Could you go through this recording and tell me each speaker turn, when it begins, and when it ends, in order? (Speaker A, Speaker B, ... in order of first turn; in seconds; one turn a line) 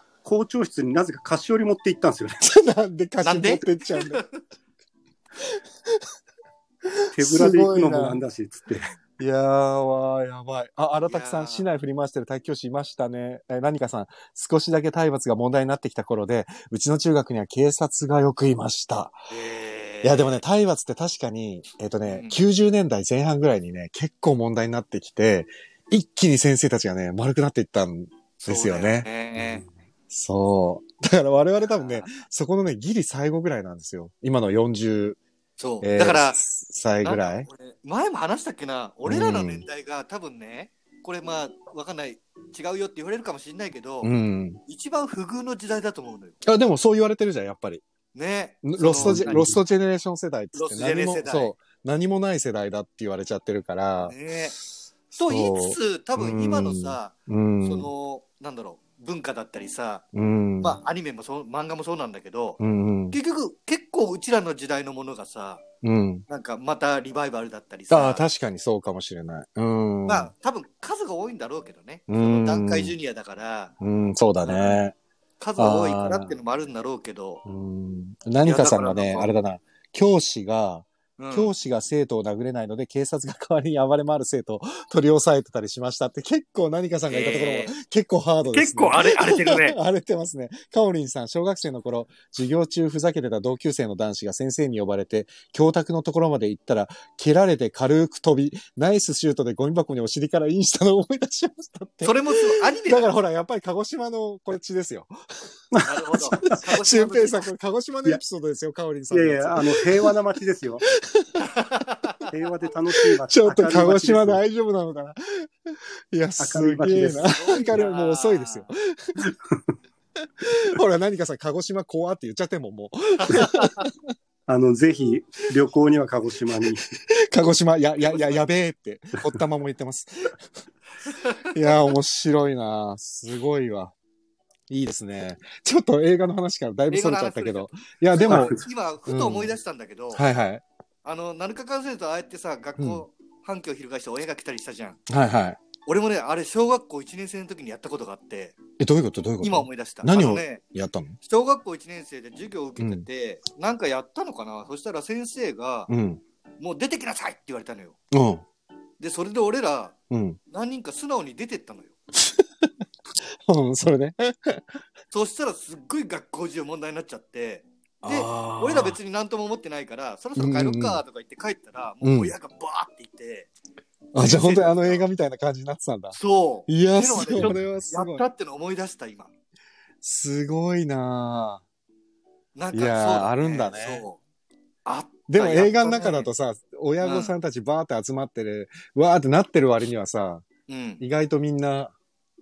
Speaker A: 0.2-2.4
Speaker B: 2.4-4.2
Speaker C: 3.2-4.4
Speaker B: 5.4-6.0
Speaker B: 6.9-8.2
Speaker A: 7.1-8.9
Speaker B: 9.2-19.2
Speaker C: 11.1-11.7
Speaker C: 19.3-20.4
Speaker B: 20.0-29.1
Speaker C: 22.1-22.4
Speaker C: 28.4-29.6
Speaker B: 30.1-35.2
Speaker C: 31.6-32.2
Speaker C: 35.6-36.4
Speaker B: 35.8-37.5
Speaker C: 37.0-44.1
Speaker B: 39.0-39.6
Speaker B: 44.0-44.6
Speaker C: 44.7-46.4
Speaker B: 46.4-47.8
Speaker C: 48.1-49.6
Speaker B: 48.6-54.1
Speaker A: 49.0-49.5
Speaker C: 50.5-51.5
Speaker C: 54.0-54.5
Speaker B: 55.1-57.9
Speaker C: 55.1-60.0
Speaker B: 60.1-60.8
Speaker C: 60.6-62.6
Speaker B: 62.6-63.2
Speaker C: 63.1-65.6
Speaker B: 65.8-66.2
Speaker C: 66.3-68.2
Speaker B: 67.9-70.3
Speaker C: 70.1-73.7
Speaker B: 72.1-72.9
Speaker B: 73.8-74.9
Speaker C: 74.4-74.8
Speaker C: 75.4-77.4
Speaker B: 75.6-76.3
Speaker B: 77.4-105.1
Speaker C: 78.4-79.3
Speaker C: 81.2-81.5
Speaker C: 87.1-87.7
Speaker C: 88.5-89.8
Speaker C: 102.0-103.1
Speaker A: 105.7-106.6
Speaker C: 105.8-107.5
Speaker B: 106.4-110.1
Speaker A: 109.1-110.8
Speaker B: 111.0-111.5
Speaker C: 111.4-112.3
Speaker A: 112.3-114.4
Speaker B: 113.3-119.2
Speaker A: 116.4-117.3
Speaker C: 117.3-118.7
Speaker A: 119.2-119.7
Speaker B: 120.4-123.9
Speaker C: 123.2-123.9
Speaker A: 124.5-126.8
Speaker B: 127.3-130.3
Speaker C: 128.0-128.4
Speaker C: 131.1-131.7
Speaker B: 131.5-133.9
Speaker B: 134.7-139.5
Speaker C: 136.9-140.2
Speaker A: 138.3-138.6
Speaker B: 140.1-140.6
Speaker C: 141.0-145.0
Speaker B: 142.8-143.0
Speaker B: 145.1-145.6
Speaker C: 145.8-148.6
Speaker B: 148.8-151.2
Speaker C: 149.4-150.6
Speaker C: 151.2-155.9
Speaker B: 152.8-153.1
Speaker B: 155.9-156.2
Speaker C: 156.6-158.0
Speaker B: 158.1-158.4
Speaker C: 159.0-159.9
Speaker B: 160.1-160.4
Speaker C: 160.5-161.9
Speaker B: 162.2-162.7
Speaker B: 163.4-164.6
Speaker C: 165.1-173.5
Speaker B: 168.0-169.0
Speaker B: 170.3-171.0
Speaker B: 172.0-172.3
Speaker B: 174.1-176.2
Speaker C: 174.2-175.1
Speaker C: 176.1-179.3
Speaker B: 176.7-178.2
Speaker B: 180.0-181.6
Speaker C: 182.5-184.2
Speaker B: 182.7-184.0
Speaker C: 184.8-186.3
Speaker B: 185.3-190.4
Speaker C: 187.0-187.3
Speaker C: 190.7-191.0
Speaker B: 191.0-191.9